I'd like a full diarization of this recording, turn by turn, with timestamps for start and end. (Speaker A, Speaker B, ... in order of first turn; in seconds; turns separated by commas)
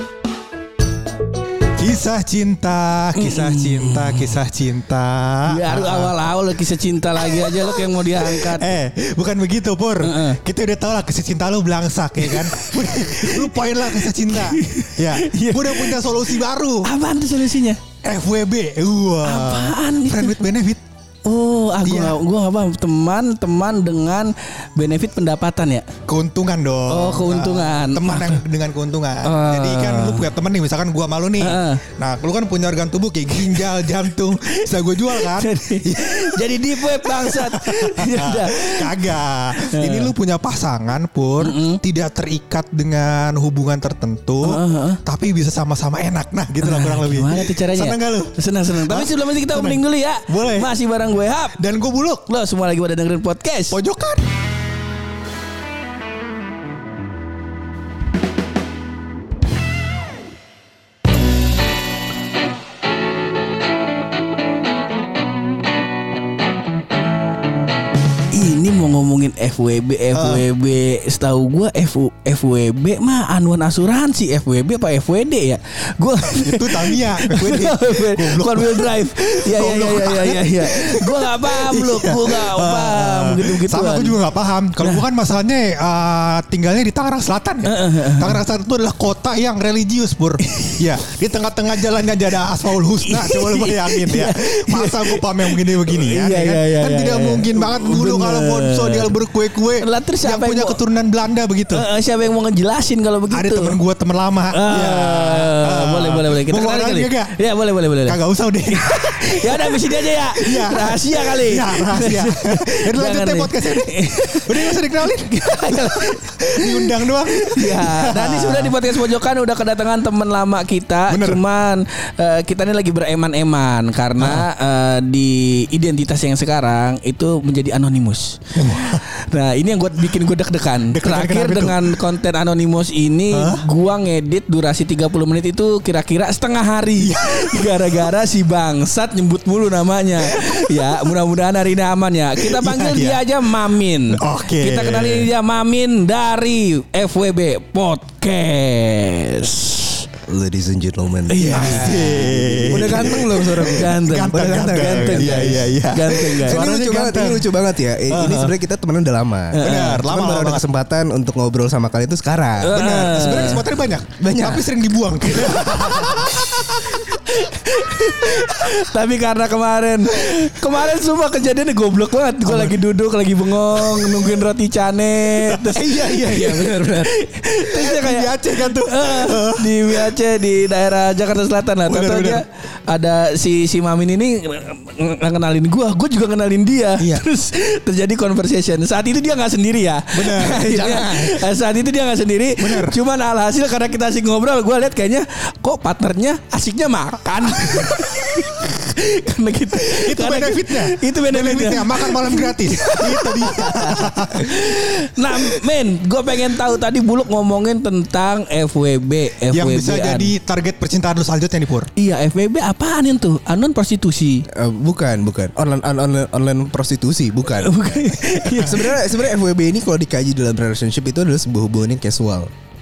Speaker A: 1.8-6.1, Speaker B: 3.1-4.3, Speaker B: 5.5-8.7, Speaker A: 7.2-16.9, Speaker B: 10.0-10.4, Speaker B: 12.2-16.1, Speaker B: 16.8-17.8, Speaker A: 18.0-20.8, Speaker B: 19.2-20.4, Speaker B: 21.2-25.9, Speaker A: 21.8-22.2, Speaker A: 26.1-50.7, Speaker B: 26.9-28.4, Speaker B: 29.2-30.3, Speaker B: 31.4-31.8, Speaker B: 34.5-39.0, Speaker B: 39.5-40.1, Speaker B: 41.4-41.8, Speaker B: 44.4-45.0, Speaker B: 46.6-51.6, Speaker A: 51.6-52.3, Speaker B: 52.3-53.8, Speaker A: 53.7-54.2, Speaker B: 68.3-84.2, Speaker A: 70.1-70.4, Speaker A: 76.3-101.8, Speaker B: 87.6-88.4, Speaker B: 90.4-90.8, Speaker B: 93.0-99.2, Speaker B: 99.8-100.8, Speaker B: 101.7-103.8, Speaker A: 103.3-107.4, Speaker B: 104.5-108.2, Speaker A: 108.1-119.0, Speaker B: 108.7-150.0, Speaker A: 121.1-121.4, Speaker A: 124.2-124.5, Speaker A: 128.5-129.0, Speaker A: 130.9-132.0, Speaker A: 133.3-133.7, Speaker A: 137.0-138.1, Speaker A: 140.2-141.1, Speaker A: 142.4-143.2, Speaker A: 144.1-145.3, Speaker C: 150.3-155.7, Speaker B: 151.3-156.6, Speaker A: 151.4-157.5, Speaker C: 156.4-162.9, Speaker A: 158.1-158.5, Speaker B: 159.5-160.0, Speaker A: 159.6-160.6, Speaker B: 162.6-163.6, Speaker A: 162.7-167.0, Speaker C: 164.2-164.7, Speaker B: 165.3-210.3, Speaker C: 175.7-177.1, Speaker A: 177.7-180.1, Speaker A: 181.9-182.4, Speaker A: 187.0-187.2, Speaker C: 190.2-191.3, Speaker A: 190.3-190.8, Speaker A: 192.6-193.0, Speaker A: 197.6-198.0, Speaker A: 199.8-204.7, Speaker A: 209.5-211.9, Speaker B: 211.9-214.5, Speaker C: 214.5-217.8, Speaker B: 217.6-219.1, Speaker C: 218.4-222.5